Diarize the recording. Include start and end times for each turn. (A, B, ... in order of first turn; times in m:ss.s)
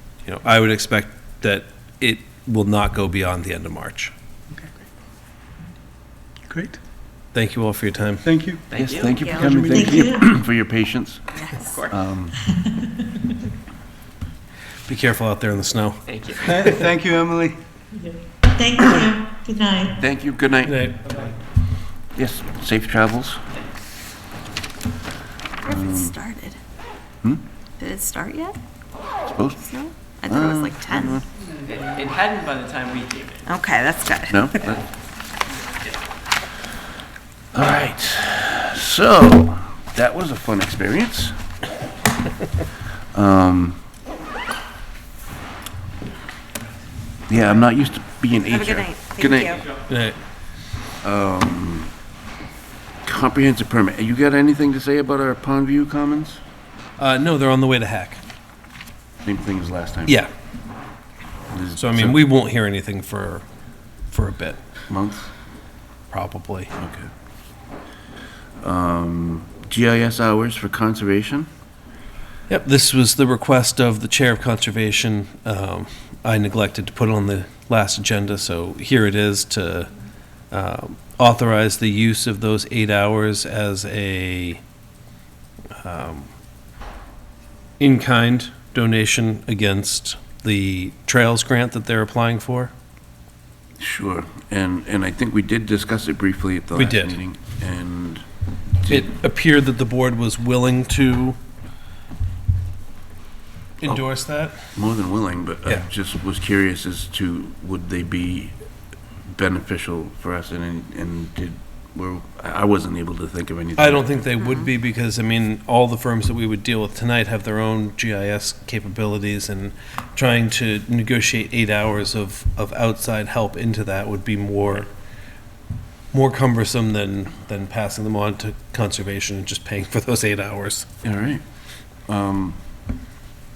0:00.2-0:04.1 A
0:06.5-0:06.8 B
0:07.3-0:08.3 A
0:08.2-0:08.6 B
0:08.7-0:09.7 C
0:08.7-0:11.4 D
0:09.4-0:10.1 B
0:09.6-0:10.3 E
0:11.4-0:11.8 F
0:11.6-0:12.0 C
0:11.9-0:12.4 D
0:12.7-0:13.3 E
0:14.9-0:16.0 A
0:16.1-0:16.8 C
0:16.4-0:17.6 B
0:18.0-0:20.0 E
0:20.0-0:20.9 D
0:20.7-0:21.2 A
0:22.2-0:23.4 D
0:25.7-0:26.2 D
0:25.7-0:26.6 F
0:27.8-0:28.6 F
0:29.3-0:29.7 D
0:29.6-0:31.2 F
0:30.3-0:31.2 D
0:31.7-0:33.5 C
0:33.5-0:34.5 F
0:34.3-0:34.9 D
0:37.5-0:41.4 D
0:43.1-0:43.8 D
0:47.3-0:49.6 D
0:48.5-0:49.6 F
0:49.9-0:50.2 A
0:51.0-0:51.9 D
0:53.0-0:56.4 D
0:57.0-0:58.2 A
0:59.2-1:00.2 D
1:01.5-1:02.2 D
1:01.8-1:03.4 A
1:04.1-1:04.6 A
1:04.9-1:05.3 D
1:06.1-1:06.7 A
1:06.8-1:07.1 D
1:08.6-1:11.5 D
1:12.5-1:19.9 A
1:20.5-1:24.6 A
1:25.8-1:26.3 A
1:27.8-1:32.7 A
1:33.8-1:38.2 D
1:36.8-1:37.2 A
1:38.9-1:41.4 A
1:43.8-1:44.6 A
1:44.7-1:48.6 D
1:49.3-1:54.2 D
1:53.8-2:04.9 A
2:06.1-2:10.9 A
2:11.0-2:11.4 D
2:12.1-2:12.6 D